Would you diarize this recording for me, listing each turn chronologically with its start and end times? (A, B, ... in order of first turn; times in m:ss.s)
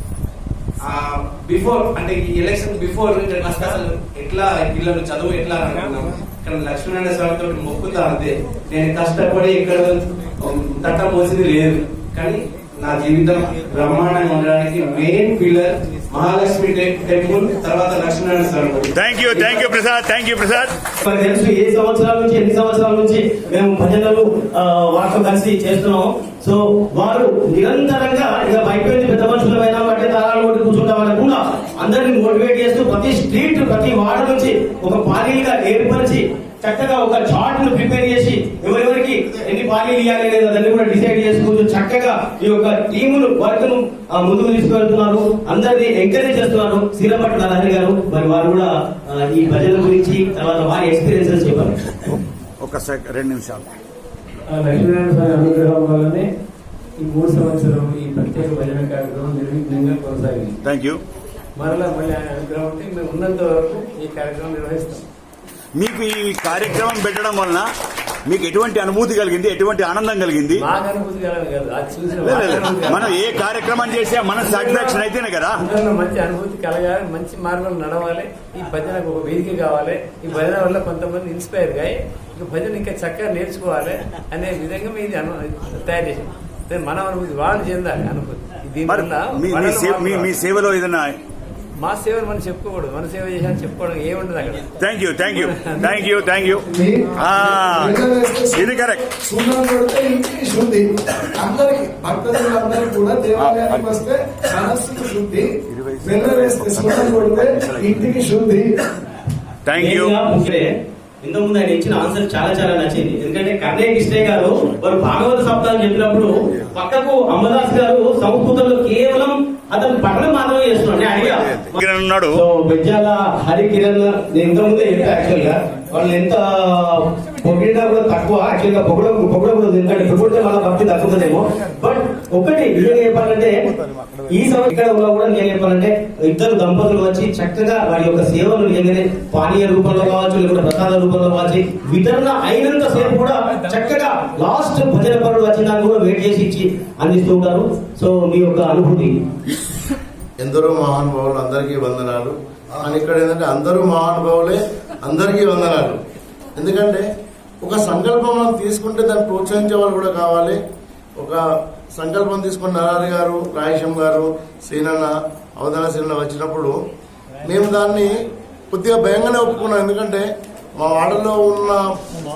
0:00.8-0:18.9 A
0:18.9-0:20.7 B
0:21.0-0:51.8 C
0:52.6-0:53.7 B
0:54.5-0:56.3 D
0:57.0-1:00.6 D
1:00.6-1:01.0 B
1:01.6-1:05.0 D
1:05.8-1:07.7 B
1:08.3-1:10.6 B
1:10.5-1:13.4 D
1:12.2-1:15.6 B
1:14.4-1:30.4 D
1:28.8-1:31.1 B
1:31.8-1:34.7 D
1:34.8-1:36.6 B
1:35.3-1:36.0 D
1:36.7-1:40.8 E
1:37.2-1:38.0 B
1:38.5-1:39.0 B
1:41.4-1:45.5 E
1:43.4-1:43.9 B
1:45.7-1:48.1 B
1:46.0-1:48.7 E
1:49.6-1:50.1 B
1:49.8-1:50.7 C
1:51.2-2:01.8 C
2:01.6-2:02.4 B
2:02.3-2:13.6 C
2:14.3-2:29.2 C
2:30.4-2:36.0 F
2:36.6-2:37.0 F
2:37.6-2:40.6 F
2:41.2-2:41.4 F
2:41.9-2:46.8 F
2:47.4-2:48.1 F
2:48.7-2:52.0 F